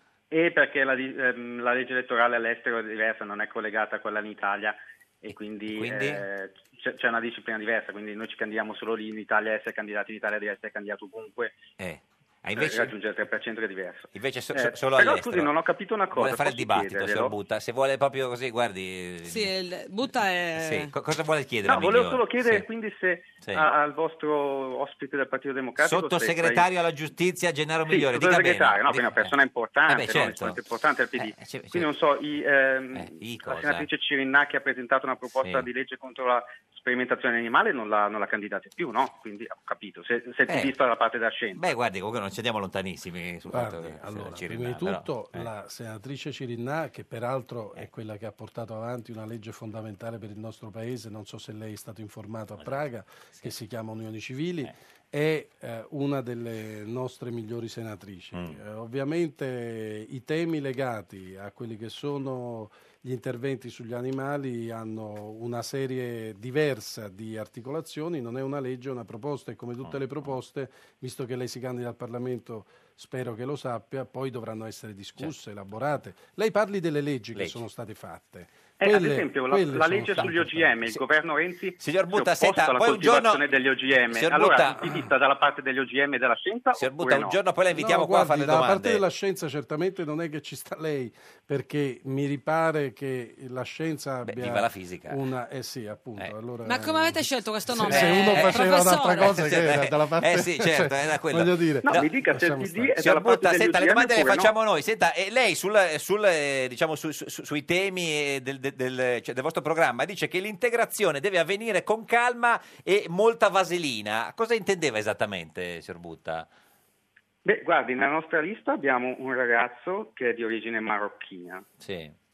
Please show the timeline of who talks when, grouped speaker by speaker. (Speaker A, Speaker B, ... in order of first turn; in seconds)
Speaker A: 0.3-11.6, 12.5-17.3, 21.6-26.7, 27.9-41.6, 78.8-87.4, 101.8-104.5, 117.4-121.6
Speaker B: 5.2-6.2, 11.8-12.9, 14.1-15.5, 16.1-19.5, 20.6-22.7, 23.4-23.7, 25.8-29.3, 29.9-30.6, 31.2-31.9, 32.9-33.9, 35.4-35.7, 40.5-40.7, 41.5-45.5, 58.3-58.6, 69.8-70.3, 81.8-83.4, 84.1-85.1, 86.8-89.0, 94.2-95.2, 97.9-102.1, 103.0-116.5, 121.8-122.1
Speaker C: 19.2-20.9, 96.6-99.4
Speaker D: 43.5-81.0, 87.7-103.0